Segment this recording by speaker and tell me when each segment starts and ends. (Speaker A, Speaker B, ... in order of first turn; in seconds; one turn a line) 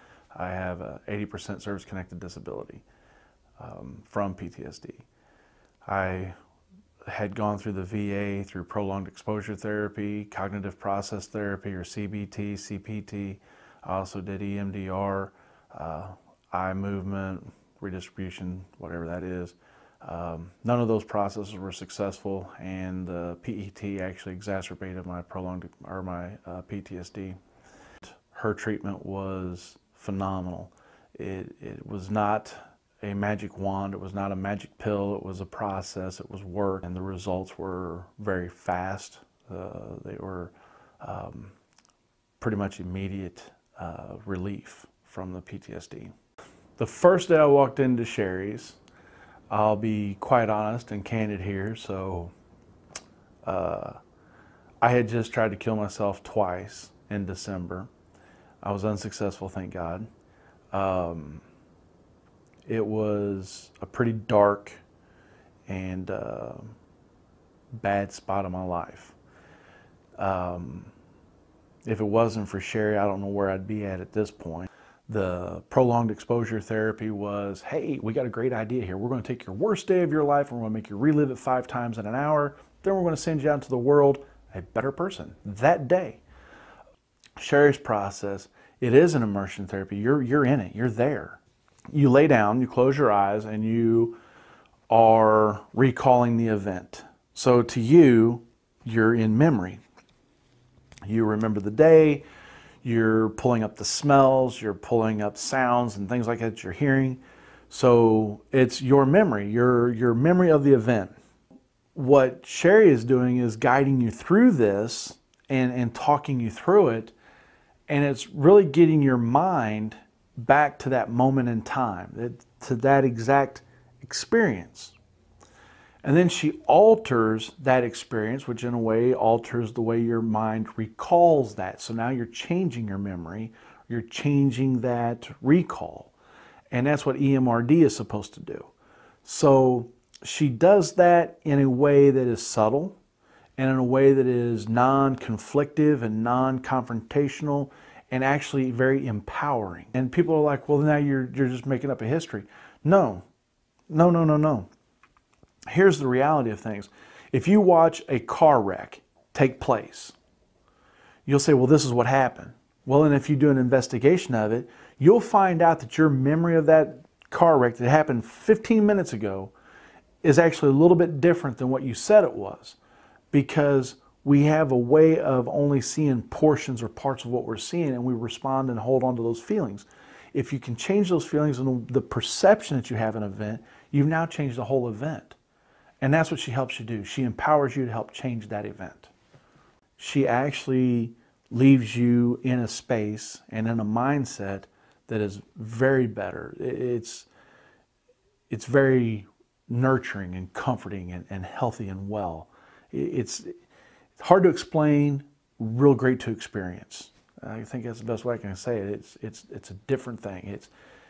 Speaker A: 0.3-2.8
Speaker A: 3.6-5.0
Speaker A: 5.8-6.3
Speaker A: 7.1-27.4
Speaker A: 28.3-41.5
Speaker A: 42.4-46.1
Speaker A: 46.8-48.8
Speaker A: 49.5-52.3
Speaker A: 53.4-54.0
Speaker A: 54.8-57.9
Speaker A: 58.6-60.1
Speaker A: 60.7-61.4
Speaker A: 62.7-64.8
Speaker A: 65.7-66.7
Speaker A: 67.8-69.2
Speaker A: 70.2-70.9
Speaker A: 71.8-86.2
Speaker A: 87.4-91.4
Speaker A: 91.9-94.2
Speaker A: 94.9-99.8
Speaker A: 101.0-102.2
Speaker A: 102.8-111.1
Speaker A: 111.9-117.1
Speaker A: 117.9-125.0
Speaker A: 126.0-136.1
Speaker A: 136.7-138.7
Speaker A: 139.2-143.0
Speaker A: 143.6-153.2
Speaker A: 153.9-154.7
Speaker A: 155.7-160.2
Speaker A: 161.2-169.5
Speaker A: 170.2-172.8
Speaker A: 173.3-185.4
Speaker A: 186.0-189.1
Speaker A: 190.0-197.3
Speaker A: 198.5-203.6
Speaker A: 204.2-210.7